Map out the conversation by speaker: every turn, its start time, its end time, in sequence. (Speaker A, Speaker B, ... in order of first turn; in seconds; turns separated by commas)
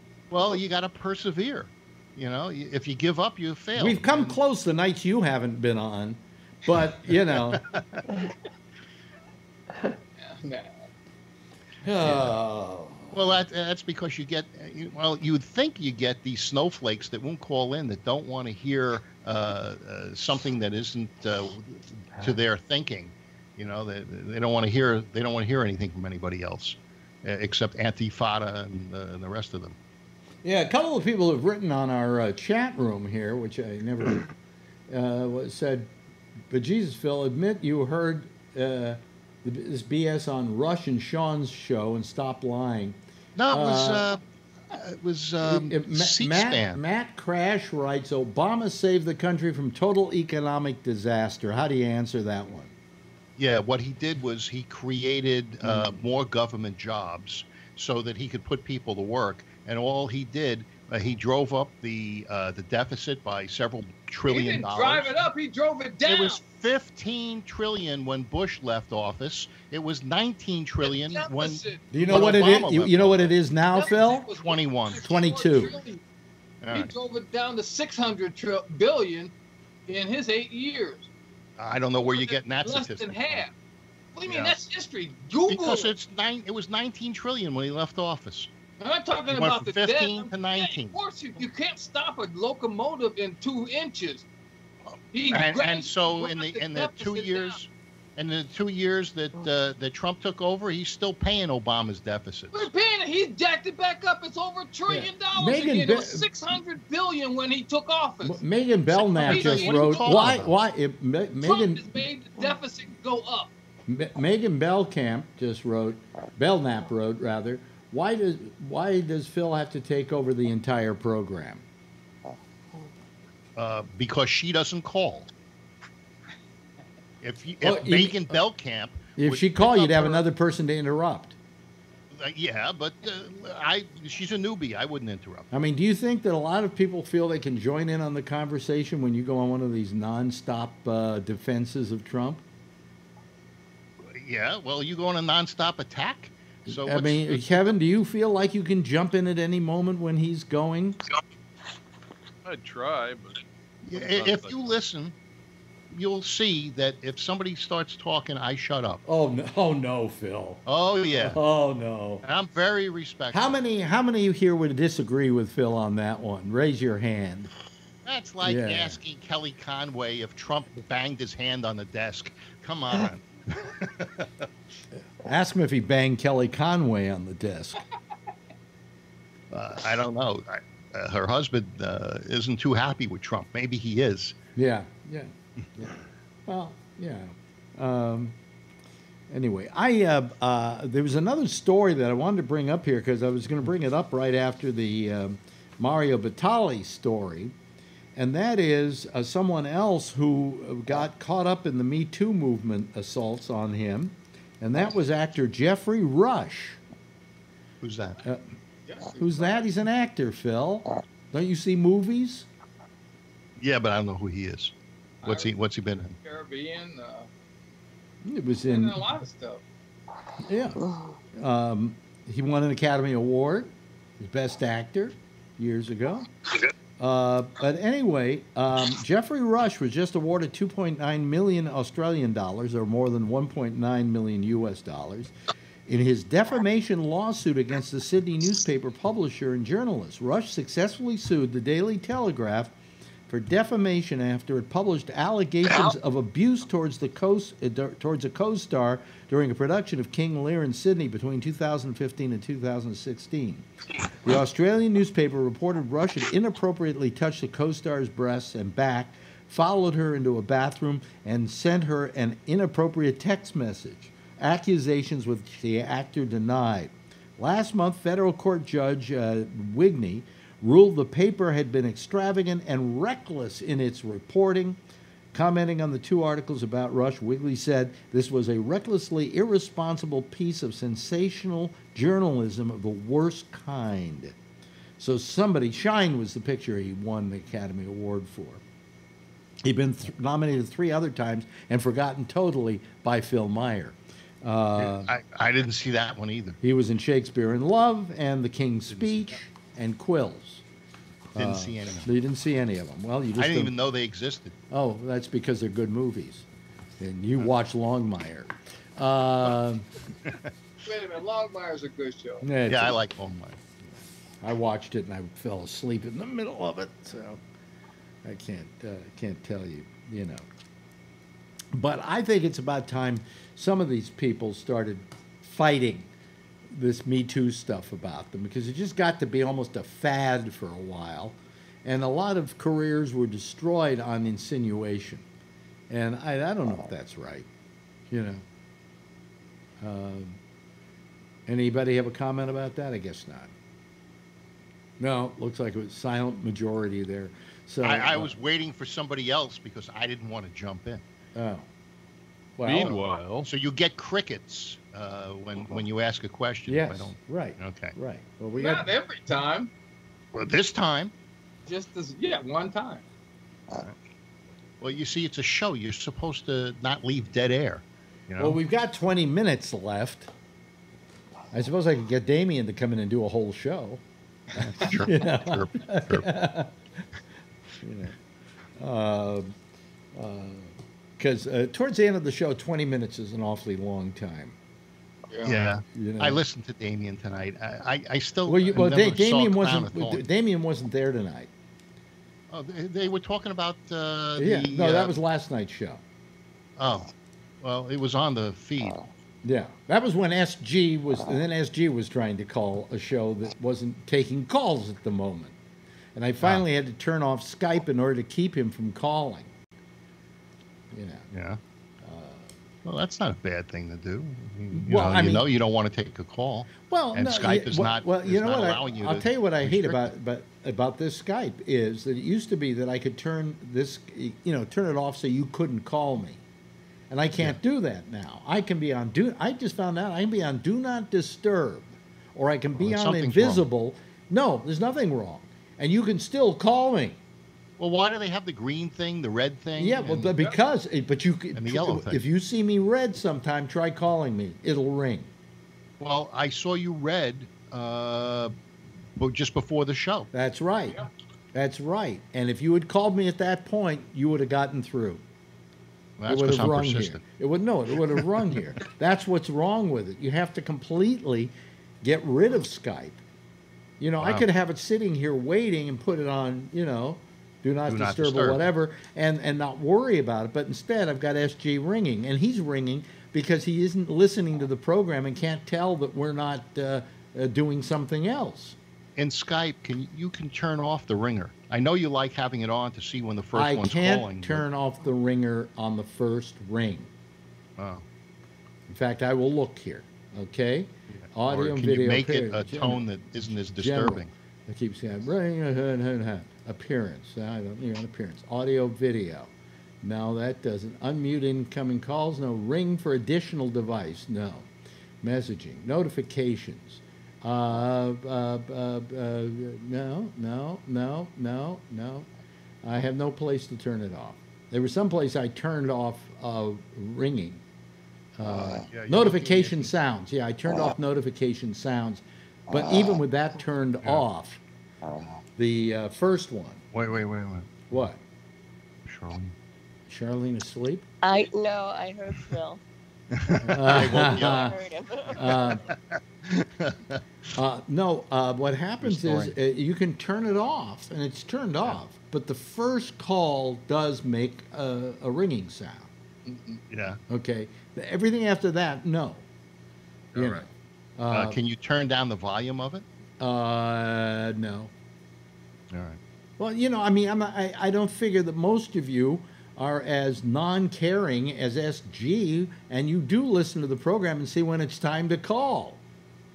Speaker A: 0.3-4.4, Speaker B: 3.7-7.6, Speaker A: 7.3-8.0, Speaker C: 10.2-10.7, Speaker B: 11.8-13.4, Speaker A: 12.0-12.3, Speaker A: 13.1-29.8, Speaker B: 30.4-34.3, Speaker B: 34.9-35.9, Speaker B: 36.5-43.0, Speaker A: 43.4-46.8, Speaker B: 43.5-44.1, Speaker B: 45.4-52.7, Speaker A: 53.4-65.1, Speaker B: 55.6-56.0, Speaker C: 64.3-66.4, Speaker A: 66.0-73.3, Speaker C: 70.8-72.4, Speaker B: 71.9-74.3, Speaker C: 73.7-76.0, Speaker A: 74.3-75.0, Speaker B: 75.0-75.8, Speaker A: 76.6-76.9, Speaker C: 76.7-79.3, Speaker C: 79.9-81.1, Speaker A: 81.6-83.4, Speaker C: 82.0-83.5, Speaker C: 84.1-85.9, Speaker A: 84.2-84.7, Speaker A: 85.5-88.5, Speaker C: 88.8-94.2, Speaker A: 89.3-91.0, Speaker A: 94.9-102.7, Speaker C: 95.1-97.6, Speaker C: 102.5-108.4, Speaker B: 104.9-106.3, Speaker B: 108.2-112.0, Speaker C: 108.9-110.4, Speaker A: 109.2-110.5, Speaker C: 111.4-113.5, Speaker B: 113.9-121.6, Speaker A: 123.5-125.3, Speaker A: 127.2-130.2, Speaker B: 127.6-128.4, Speaker B: 129.2-131.3, Speaker A: 132.1-135.5, Speaker B: 135.5-142.4, Speaker A: 144.1-147.7, Speaker B: 146.7-151.0, Speaker D: 152.4-154.6, Speaker A: 153.8-155.1, Speaker A: 155.9-159.0, Speaker B: 159.0-162.2, Speaker A: 160.7-161.4, Speaker A: 162.2-163.6, Speaker B: 163.3-167.5, Speaker A: 168.1-174.4, Speaker B: 168.4-169.0, Speaker B: 175.2-177.8, Speaker A: 179.5-184.3, Speaker B: 184.5-188.3, Speaker B: 189.3-197.5, Speaker B: 198.1-206.8, Speaker A: 207.8-208.2, Speaker C: 208.8-209.7, Speaker B: 209.2-212.5, Speaker A: 213.6-216.2, Speaker C: 215.2-215.5, Speaker C: 216.2-217.3, Speaker B: 218.2-219.0, Speaker C: 218.7-219.6, Speaker B: 220.4-220.8, Speaker B: 221.3-226.3, Speaker B: 227.0-235.3, Speaker B: 235.9-242.7, Speaker B: 243.3-253.6, Speaker B: 254.2-274.8, Speaker B: 275.3-284.4, Speaker B: 285.0-288.6, Speaker B: 289.6-295.1, Speaker A: 294.8-296.6, Speaker B: 296.6-300.6, Speaker A: 298.9-299.4, Speaker B: 301.3-303.7, Speaker A: 301.3-302.1, Speaker A: 303.4-304.6, Speaker B: 304.7-306.4, Speaker B: 307.0-309.9, Speaker C: 310.9-312.5, Speaker B: 312.4-313.0, Speaker A: 312.6-313.6, Speaker B: 314.4-317.4, Speaker B: 318.2-320.4, Speaker B: 321.7-326.1, Speaker B: 326.7-335.2, Speaker B: 335.9-337.5, Speaker B: 338.1-338.4, Speaker B: 339.8-340.4, Speaker B: 341.4-343.5, Speaker B: 345.0-348.3, Speaker A: 347.8-351.0, Speaker B: 351.3-351.7, Speaker B: 352.6-353.0, Speaker D: 352.6-353.5, Speaker A: 352.8-357.9, Speaker B: 356.7-358.9, Speaker C: 358.6-359.7, Speaker A: 360.3-361.1, Speaker C: 361.6-363.0, Speaker A: 363.7-364.0, Speaker A: 364.8-368.6, Speaker B: 368.4-370.3, Speaker B: 371.5-374.0, Speaker A: 374.5-376.3, Speaker B: 374.6-376.7, Speaker B: 377.8-378.1, Speaker B: 378.8-379.6, Speaker B: 380.1-384.6, Speaker C: 385.3-385.6, Speaker A: 385.4-390.2, Speaker B: 385.9-386.4, Speaker B: 388.4-391.5, Speaker A: 392.5-395.1, Speaker B: 394.4-396.0, Speaker A: 396.8-399.0, Speaker B: 399.4-405.6, Speaker B: 406.1-409.5, Speaker B: 410.9-411.3, Speaker A: 411.3-411.6, Speaker B: 412.0-412.5, Speaker A: 412.8-420.1, Speaker B: 414.7-415.4, Speaker B: 416.8-426.4, Speaker B: 427.1-437.2, Speaker A: 432.8-433.6, Speaker A: 437.8-440.3, Speaker B: 439.8-445.3, Speaker A: 441.5-442.2, Speaker A: 446.0-448.5, Speaker A: 449.2-450.3, Speaker B: 450.3-455.2, Speaker A: 456.2-457.2, Speaker B: 456.2-463.2, Speaker B: 464.0-478.8, Speaker A: 464.2-464.4, Speaker A: 467.9-468.6, Speaker A: 479.1-484.6, Speaker B: 483.5-487.1, Speaker A: 487.8-488.0, Speaker B: 488.9-493.0, Speaker A: 491.2-494.3, Speaker B: 493.8-499.5, Speaker B: 500.0-504.7, Speaker B: 505.2-512.3, Speaker B: 512.8-517.6, Speaker B: 518.4-524.6, Speaker A: 518.5-519.9, Speaker B: 525.6-526.8, Speaker A: 526.9-527.7, Speaker B: 527.9-528.2, Speaker A: 529.0-529.5, Speaker B: 530.1-531.0, Speaker E: 531.2-532.8, Speaker A: 533.3-534.8, Speaker B: 533.7-534.8, Speaker E: 533.9-535.8, Speaker B: 535.3-535.8, Speaker A: 535.4-537.2, Speaker B: 537.5-546.1, Speaker A: 539.0-539.5, Speaker C: 546.5-546.8, Speaker A: 546.9-547.2, Speaker B: 547.3-549.4, Speaker A: 550.3-550.6, Speaker B: 550.3-551.6, Speaker A: 551.3-553.0, Speaker B: 553.4-554.9, Speaker A: 555.9-556.2, Speaker B: 556.6-566.0